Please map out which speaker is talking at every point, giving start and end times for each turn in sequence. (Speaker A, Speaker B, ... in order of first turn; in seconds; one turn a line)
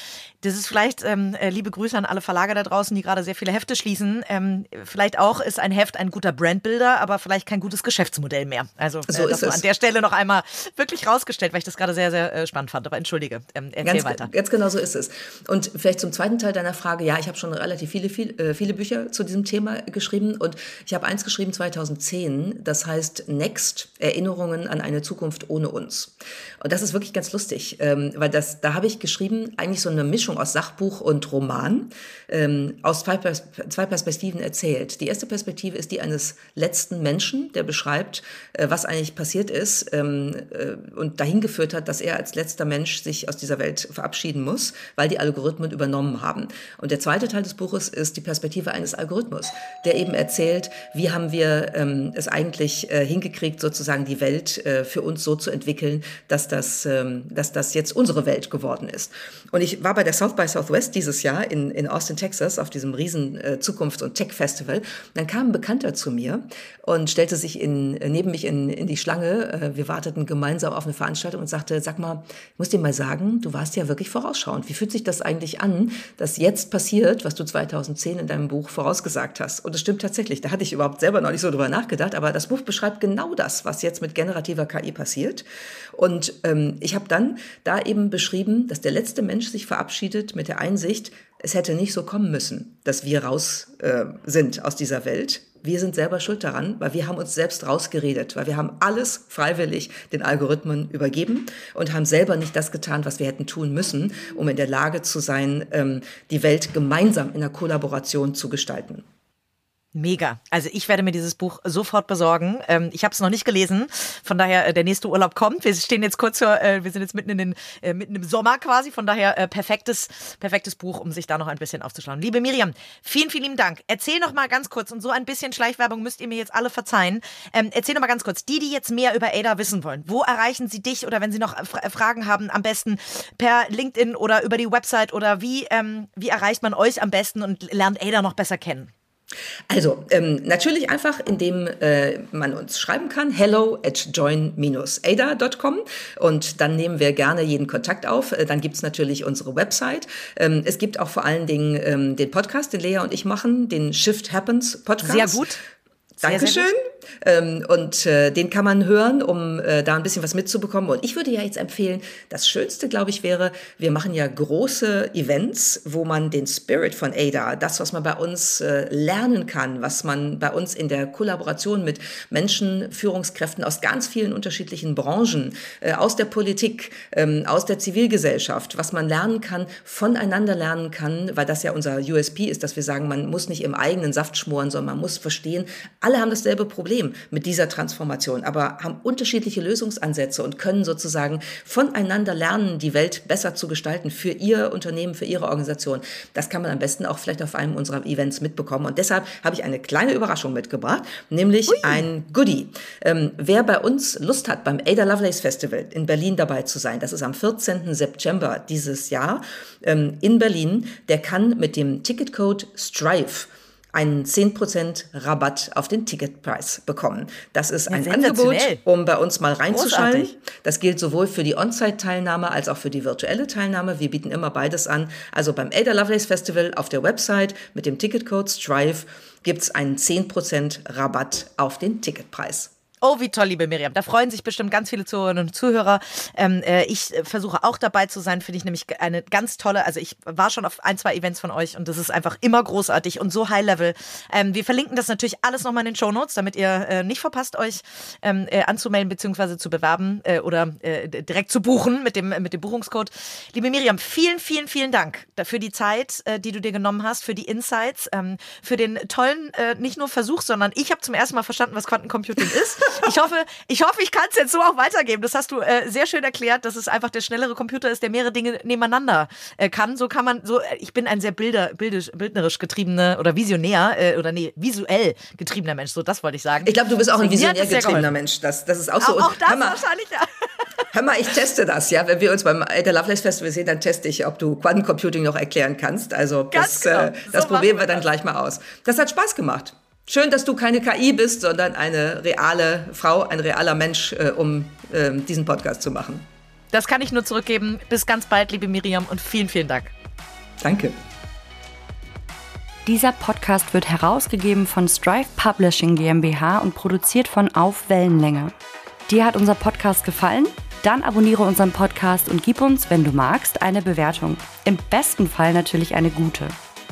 Speaker A: 0.4-14.3
Speaker B: 9.1-9.6
Speaker B: 13.8-109.0
Speaker A: 109.9-138.9
Speaker B: 139.7-155.4
Speaker A: 155.0-155.6
Speaker B: 156.2-232.7
Speaker A: 156.2-156.7
Speaker A: 217.9-218.8
Speaker A: 219.7-220.3
Speaker A: 233.0-278.1
Speaker B: 276.6-279.8
Speaker A: 279.0-280.9
Speaker B: 280.9-296.3
Speaker A: 286.5-288.0
Speaker A: 296.7-299.9
Speaker B: 300.6-300.9
Speaker C: 302.9-308.5
Speaker C: 309.1-316.5